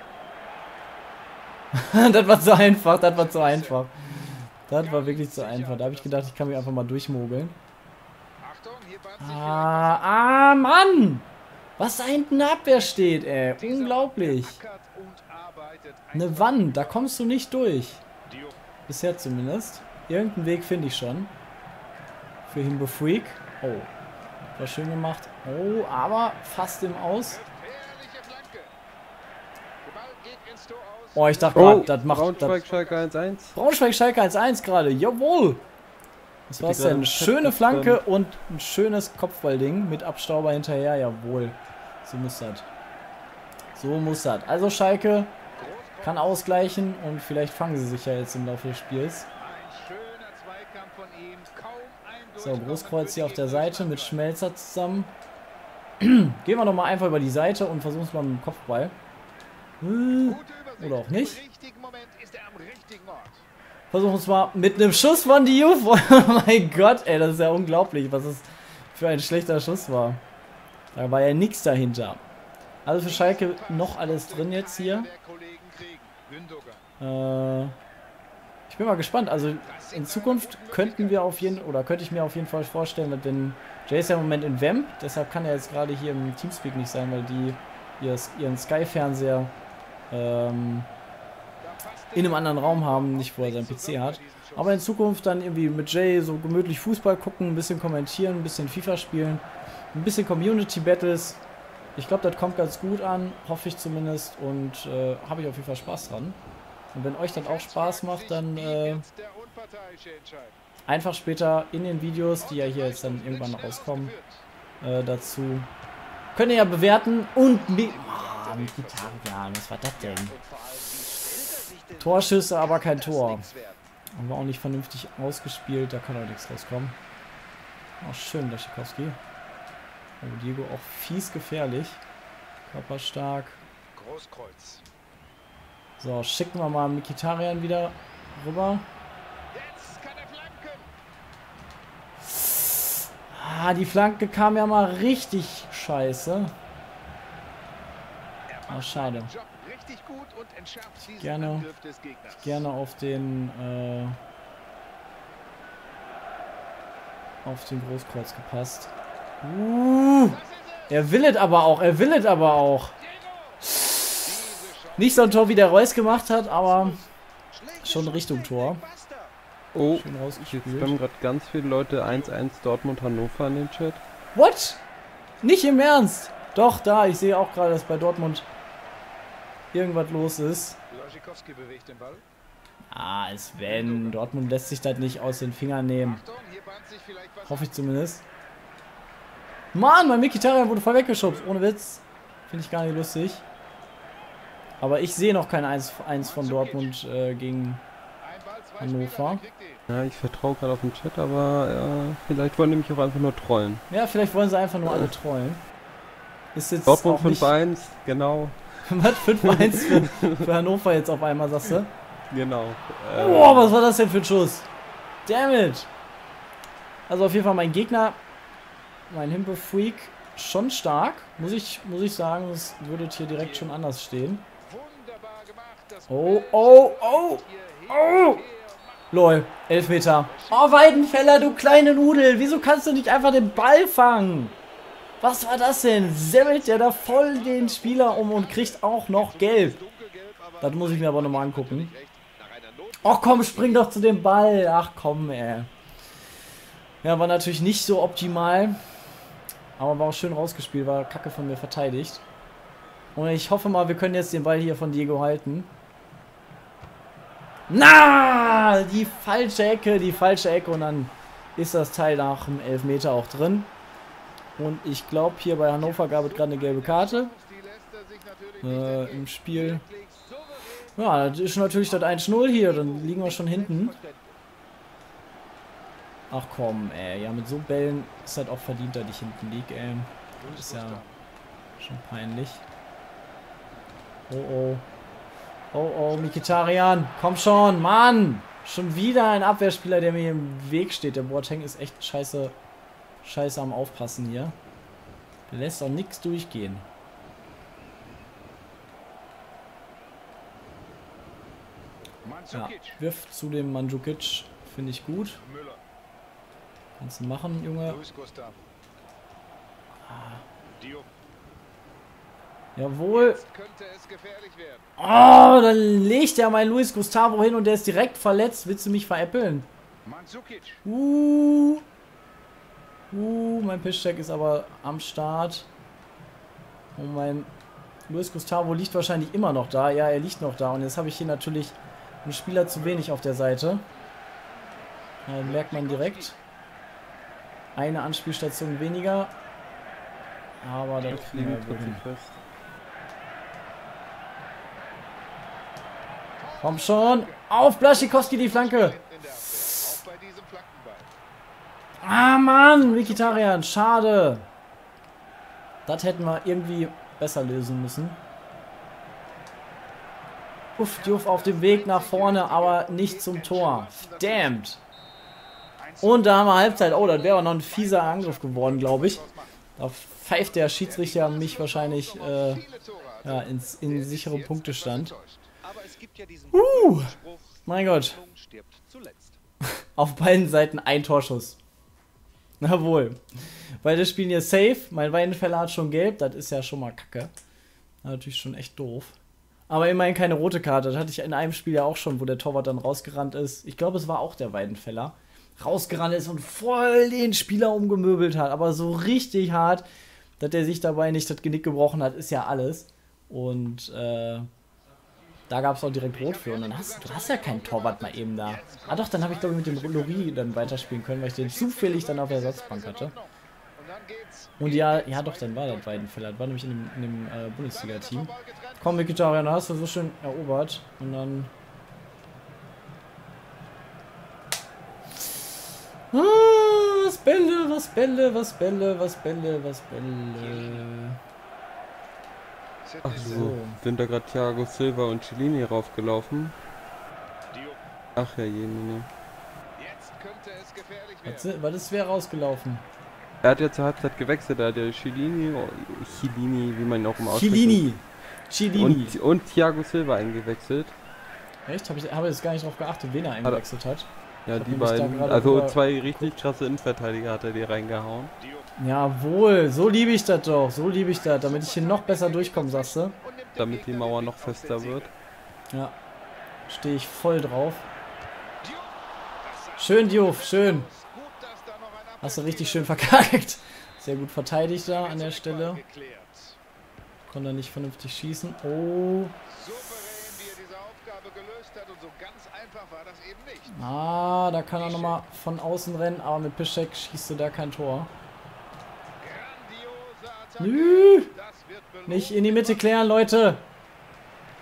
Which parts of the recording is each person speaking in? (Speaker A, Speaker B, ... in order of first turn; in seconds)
Speaker A: 1.7-7.6, 9.2-14.6, 16.1-18.0, 18.9-21.3, 22.5-23.9, 24.6-27.4, 31.1-32.6, 33.5-35.6, 36.5-42.7, 43.8-45.3, 46.0-49.3, 52.4-55.1, 56.0-59.0, 59.8-61.4, 63.9-70.2, 70.9-72.2, 72.8-75.1, 77.0-77.8, 78.7-89.5, 90.1-90.9, 92.2-101.4, 102.0-106.4, 106.9-109.0, 110.9-114.1, 114.8-115.7, 116.3-120.3, 122.0-123.5, 124.2-127.0, 128.0-129.2, 130.2-132.0, 132.7-133.6, 136.0-138.9, 142.3-146.5, 148.7-149.3, 151.2-151.7, 152.4-154.2, 157.4-162.9, 163.6-164.3, 165.0-167.0, 167.8-168.8, 169.9-170.9, 174.3-174.8, 175.4-178.5, 179.7-180.8, 182.9-186.2, 187.5-188.2, 189.7-193.4, 194.8-197.8, 198.8-199.4, 203.9-205.6, 206.6-207.5, 208.9-211.9, 213.2-214.7, 215.3-215.9, 217.1-218.2, 219.1-224.5, 226.1-228.4, 229.1-234.6, 235.2-239.8, 240.6-241.9, 243.0-245.7, 247.0-248.8, 249.8-252.2, 253.2-255.7, 257.7-263.7, 264.6-267.3, 268.6-269.8, 271.0-273.9, 276.3-281.0, 281.8-282.6, 284.3-284.9, 285.7-292.6, 293.2-294.6, 295.5-296.9, 302.5-305.4, 307.0-308.0, 310.1-310.4, 312.8-313.4, 315.0-319.7, 320.8-321.8, 323.1-325.7, 327.0-327.5, 328.1-333.8, 335.3-336.4, 337.8-339.3, 340.6-342.0, 346.6-349.0, 352.0-354.5, 355.9-358.2, 360.8-364.8, 366.0-369.2, 369.8-372.6, 373.2-375.1, 376.5-377.1, 377.7-378.2, 379.6-381.6, 382.6-383.2, 383.8-387.3, 388.0-389.2, 389.7-399.9, 400.4-404.5, 405.5-413.1, 414.6-421.5, 426.1-431.2, 433.1-433.8, 441.2-442.8, 447.3-449.2, 451.7-456.4, 458.8-463.1, 466.7-467.9, 469.8-470.9, 472.2-475.8, 477.3-479.4, 483.7-488.1, 490.6-491.3, 492.1-493.7
Speaker B: 3.0-3.8, 4.7-6.7, 8.4-10.1, 13.3-17.2, 18.3-18.6, 27.3-28.7, 29.8-33.1, 45.5-46.7, 49.4-54.2, 60.2-63.4, 73.0-76.9, 79.7-81.6, 91.6-94.9, 107.2-110.6, 112.4-114.4, 117.5-119.3, 120.0-123.8, 133.9-134.8, 139.5-140.9, 148.5-152.7, 160.3-160.9, 163.0-169.3, 172.1-172.3, 180.9-182.2, 183.7-184.2, 186.0-187.8, 196.2-196.9, 198.2-199.8, 223.4-223.8, 224.6-229.1, 230.2-233.6, 236.2-243.9, 265.8-274.4, 280.4-281.2, 302.2-303.0, 305.4-305.8, 307.8-308.7, 310.7-311.1, 313.1-314.9, 320.1-320.8, 335.4-336.3, 346.4-351.1, 353.0-353.5, 360.8-364.6, 365.8-369.6, 370.5-379.4, 406.1-416.1, 417.7-419.2, 430.4-430.9, 432.8-433.5, 437.5-437.8, 439.8-441.5, 458.4-458.7, 461.1-465.1, 468.6-473.3, 474.9-476.6, 479.5-483.8, 484.8-485.2, 489.2-493.2
Speaker C: 31.6-33.5, 36.6-38.0, 169.7-174.0, 199.9-203.8, 206.9-208.6, 209.2-210.5, 212.3-213.7, 341.0-342.4, 433.0-436.6, 438.2-439.1, 443.4-447.9, 448.7-450.9, 454.5-458.3, 463.6-465.1